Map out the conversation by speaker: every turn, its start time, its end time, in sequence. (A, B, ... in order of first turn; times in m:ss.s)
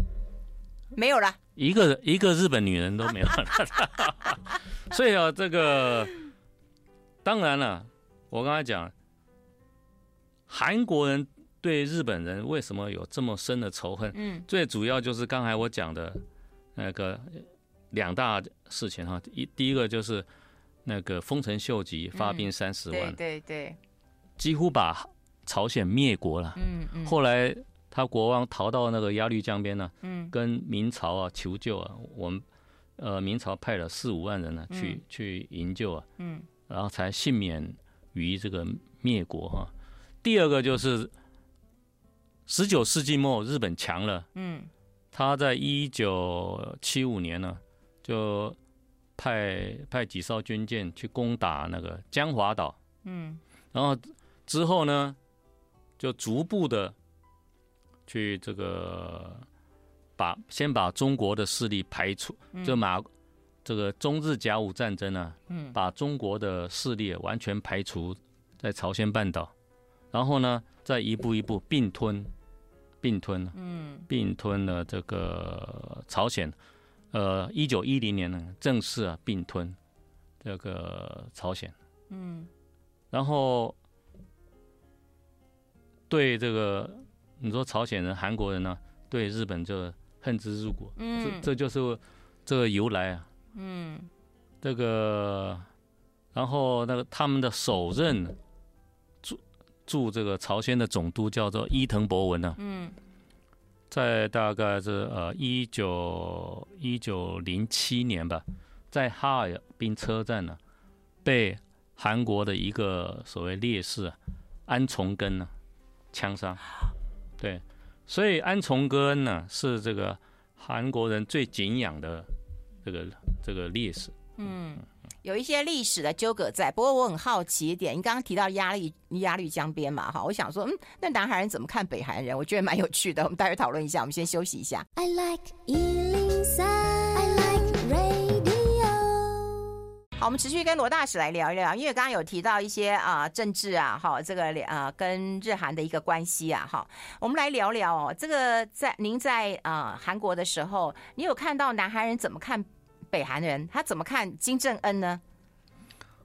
0:00.9-0:01.4 A
0:01.6-0:06.1 B
0:07.2-0:08.9 B
0:10.5-0:16.2 B
0:14.1-0:14.4 A
0:16.7-0:20.3 B
0:20.8-0:23.2 B
0:22.1-0:23.8 A
0:24.4-0:32.4 B
0:26.6-0:27.1 A
0:30.0-0:30.3 A
0:33.0-0:36.1 B
0:34.7-0:35.0 A
0:36.2-0:36.5 A
0:36.7-0:39.7 B
0:40.2-0:41.1 B
0:42.4-0:44.3 B
0:44.3-0:44.7 A
0:45.1-0:48.6 B
0:49.2-0:52.8 B
0:53.0-0:53.4 A
0:53.7-0:55.2 B
0:56.0-0:56.9 B
0:58.1-0:59.4 B
1:00.2-1:03.1 B
1:02.5-1:02.8 A
1:03.6-1:09.5 B
1:05.5-1:05.8 A
1:10.1-1:12.3 B
1:13.0-1:13.6 B
1:13.5-1:14.1 A
1:14.1-1:16.6 B
1:17.1-1:19.8 B
1:20.4-1:21.7 B
1:22.1-1:22.5 A
1:23.1-1:23.8 B
1:26.1-1:33.3 B
1:31.0-1:31.5 A
1:33.5-1:34.1 A
1:34.6-1:35.6 B
1:36.3-1:38.4 B
1:39.2-1:42.6 B
1:42.6-1:43.0 A
1:43.9-1:50.6 B
1:51.2-1:55.5 B
1:56.1-1:56.6 B
1:57.4-2:02.3 B
2:02.8-2:04.2 B
2:04.4-2:14.8 A
2:15.0-2:19.6 C
2:20.2-2:35.2 A